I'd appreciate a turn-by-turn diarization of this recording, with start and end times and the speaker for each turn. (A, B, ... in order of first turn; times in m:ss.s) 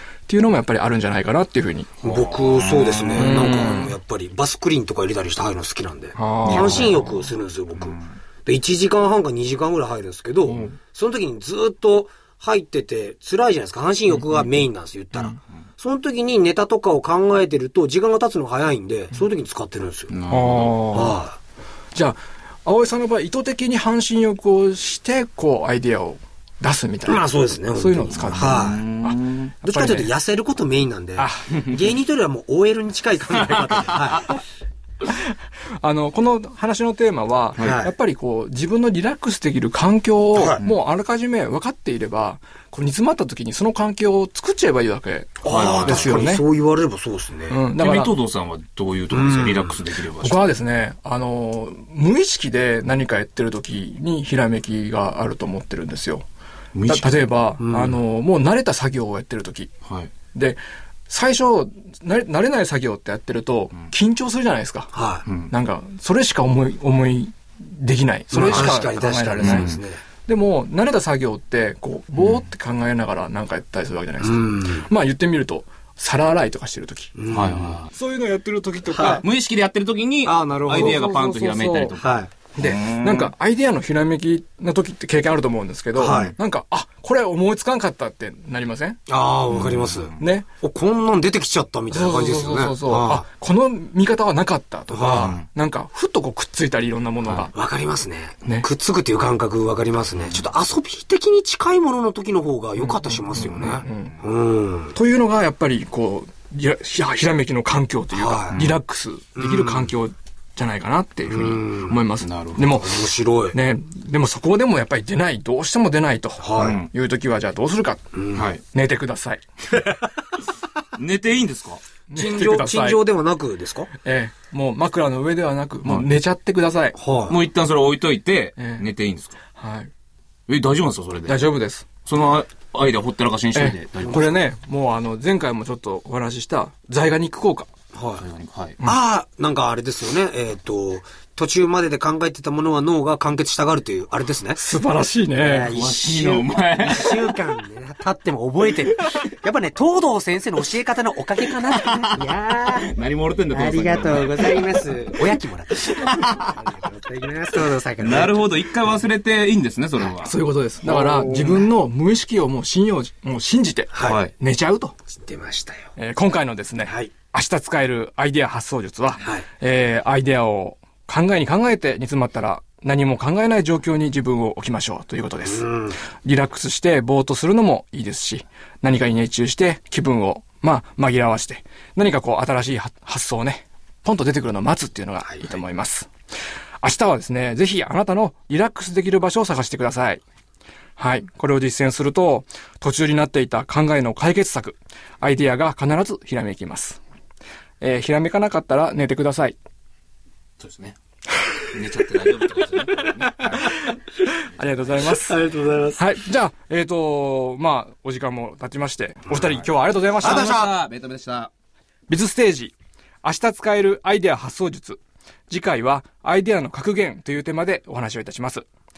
0:00.3-0:02.0 A
0:02.0-0:03.5 B
0:02.0-0:20.2 C
0:03.2-0:03.9 A
0:06.2-0:06.9 A
0:06.4-0:07.2 B
0:14.1-0:14.6 B
0:20.1-0:21.0 B
0:20.3-0:21.2 A
0:20.9-0:21.4 C
0:21.9-0:30.1 A
0:27.0-0:28.9 C
0:28.3-0:29.5 B
0:29.6-0:34.3 C
0:31.2-0:31.6 A
0:35.8-0:46.4 A
0:37.6-0:37.9 C
0:40.3-0:40.6 C
0:45.4-0:47.6 C
0:45.4-0:46.3 B
0:47.5-0:48.1 A
0:47.8-0:50.4 B
0:49.1-0:49.8 C
0:50.2-0:56.2 A
0:56.7-0:57.3 B
0:56.9-0:59.7 A
0:57.6-0:58.0 C
0:59.8-1:00.1 B
1:00.2-1:05.0 A
1:04.9-1:05.2 C
1:05.2-1:05.5 B
1:05.5-1:17.2 A
1:08.3-1:10.0 C
1:08.4-1:08.7 B
1:09.4-1:09.7 B
1:14.2-1:14.9 C
1:17.2-1:17.8 C
1:17.3-1:17.9 B
1:17.9-1:19.2 A
1:18.9-1:19.2 C
1:19.2-1:23.3 B
1:20.2-1:21.0 C
1:20.7-1:21.9 A
1:22.0-1:22.3 C
1:22.6-1:29.0 A
1:26.0-1:26.3 C
1:29.1-1:33.2 C
1:29.5-1:30.2 B
1:30.2-1:30.4 A
1:31.9-1:37.5 A
1:34.9-1:35.3 C
1:37.3-1:45.0 C
1:40.2-1:40.5 B
1:42.8-1:44.2 A
1:44.9-1:53.0 A
1:48.1-1:48.6 C
1:48.5-1:48.8 B
1:49.4-1:49.9 C
1:51.3-1:52.0 C
1:52.2-1:52.7 B
1:52.8-1:53.6 C
1:53.5-2:00.0 A
1:56.4-1:56.8 C
1:56.6-1:56.9 B
1:58.1-1:58.5 C
1:58.3-1:58.6 B
2:00.9-2:02.0 B
2:02.1-2:03.0 A
2:02.1-2:03.9 C
2:04.0-2:07.0 A
2:06.9-2:07.4 C
2:07.3-2:09.4 B
2:08.6-2:08.8 A
2:09.5-2:09.9 A
2:10.5-2:11.5 B
2:11.3-2:12.0 A
2:12.0-2:14.4 B
2:13.5-2:17.7 A
2:17.9-2:18.2 C
2:18.2-2:18.8 B
2:18.8-2:24.6 C
2:24.6-2:25.7 A
2:25.3-2:32.9 C
2:25.6-2:27.4 B
2:31.8-2:32.2 B
2:32.7-2:35.0 B
2:33.5-2:38.5 C
2:35.8-2:36.6 B
2:38.0-2:40.3 B
2:40.2-2:44.9 A
2:40.8-2:41.7 C
2:43.9-2:44.2 C
2:44.0-2:44.3 B
2:45.1-2:45.9 C
2:46.0-2:55.6 A
2:46.8-2:47.1 C
2:49.2-2:49.5 C
2:55.4-2:56.0 C
2:56.2-3:06.1 A
3:06.8-3:10.2 A
3:11.0-3:17.0 A
3:17.8-3:19.6 A
3:20.6-3:21.0 B
3:21.6-3:23.8 B
3:23.5-3:24.0 A
3:24.5-3:25.4 A
3:24.6-3:25.1 B
3:25.3-3:26.0 C
3:25.9-3:30.6 A
3:30.2-3:31.5 B
3:30.3-3:30.7 C
3:32.1-3:38.6 A